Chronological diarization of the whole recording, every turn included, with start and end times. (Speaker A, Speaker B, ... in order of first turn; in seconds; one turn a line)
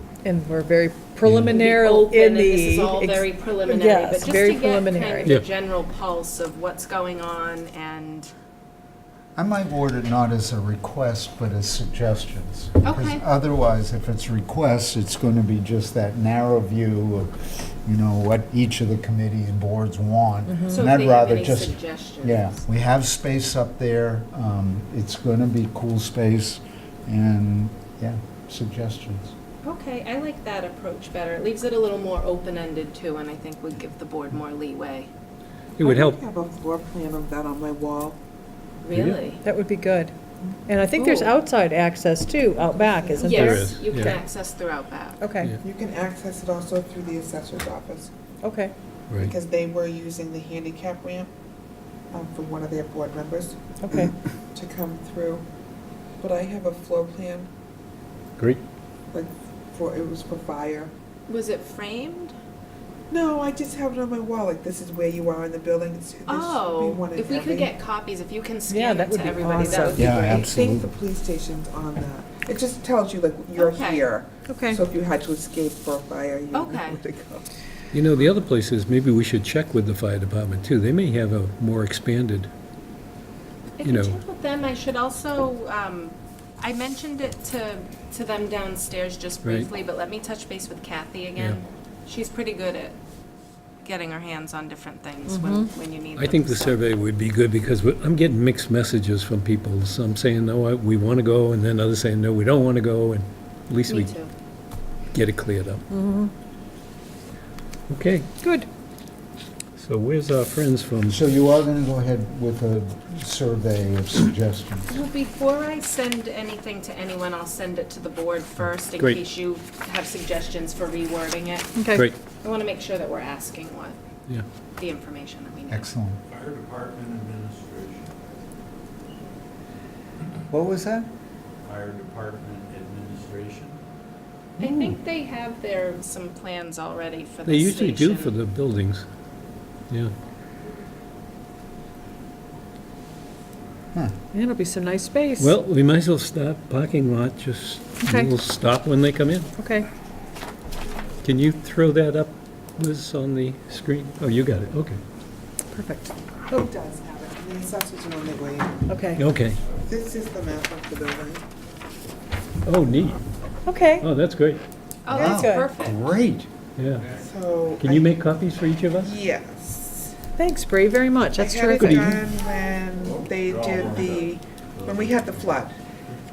Speaker A: 0.2-5.3
Speaker B: 1.2-1.5
Speaker C: 1.5-8.3
Speaker D: 9.3-29.3
Speaker C: 12.8-13.2
Speaker A: 20.5-20.8
Speaker C: 20.7-22.6
Speaker C: 29.6-35.1
Speaker B: 35.8-36.2
Speaker E: 35.8-38.2
Speaker C: 38.8-39.4
Speaker B: 38.9-39.2
Speaker A: 39.4-40.1
Speaker A: 40.7-43.7
Speaker C: 41.0-41.3
Speaker E: 42.5-43.5
Speaker C: 43.2-45.2
Speaker B: 43.3-44.2
Speaker A: 45.2-45.5
Speaker E: 45.6-48.1
Speaker A: 48.4-48.7
Speaker E: 49.2-51.3
Speaker E: 52.1-55.5
Speaker A: 53.8-54.1
Speaker E: 56.2-57.5
Speaker E: 59.1-60.9
Speaker C: 61.3-62.3
Speaker E: 63.1-67.7
Speaker C: 66.3-70.1
Speaker A: 68.7-70.1
Speaker E: 69.8-77.5
Speaker D: 69.9-70.9
Speaker C: 73.5-74.1
Speaker A: 74.5-74.8
Speaker C: 76.5-77.0
Speaker B: 77.9-82.5
Speaker C: 83.8-93.0
Speaker B: 83.8-84.2
Speaker C: 93.8-96.9
Speaker A: 95.3-95.7
Speaker B: 96.2-104.1
Speaker C: 103.9-104.3
Speaker B: 105.1-105.8
Speaker A: 105.9-106.3
Speaker B: 107.9-108.3
Speaker A: 108.4-108.7
Speaker B: 109.8-111.2
Speaker D: 111.1-114.9
Speaker C: 114.9-124.0
Speaker A: 121.8-122.1
Speaker C: 124.8-125.9
Speaker D: 125.7-126.2
Speaker F: 126.3-128.1
Speaker D: 130.5-131.1
Speaker F: 131.6-133.8
Speaker C: 134.6-138.3
Speaker B: 134.6-134.9
Speaker B: 137.4-139.1
Speaker A: 144.3-145.5
Speaker B: 145.4-149.5
Speaker A: 148.0-148.3
Speaker A: 149.6-149.9
Speaker B: 151.2-155.0
Speaker A: 155.7-156.1
Speaker E: 156.5-159.0
Speaker A: 158.9-159.2
Speaker B: 159.2-159.6
Speaker E: 159.8-161.4
Speaker B: 162.6-163.2
Speaker A: 163.7-164.1
Speaker B: 164.0-164.6
Speaker C: 165.0-166.0
Speaker A: 165.1-165.7
Speaker D: 165.1-166.5
Speaker B: 166.8-167.0
Speaker F: 167.0-167.3
Speaker E: 167.2-168.1
Speaker B: 167.8-169.1
Speaker E: 169.0-170.1
Speaker A: 170.4-172.2
Speaker E: 171.3-175.7
Speaker F: 173.0-175.5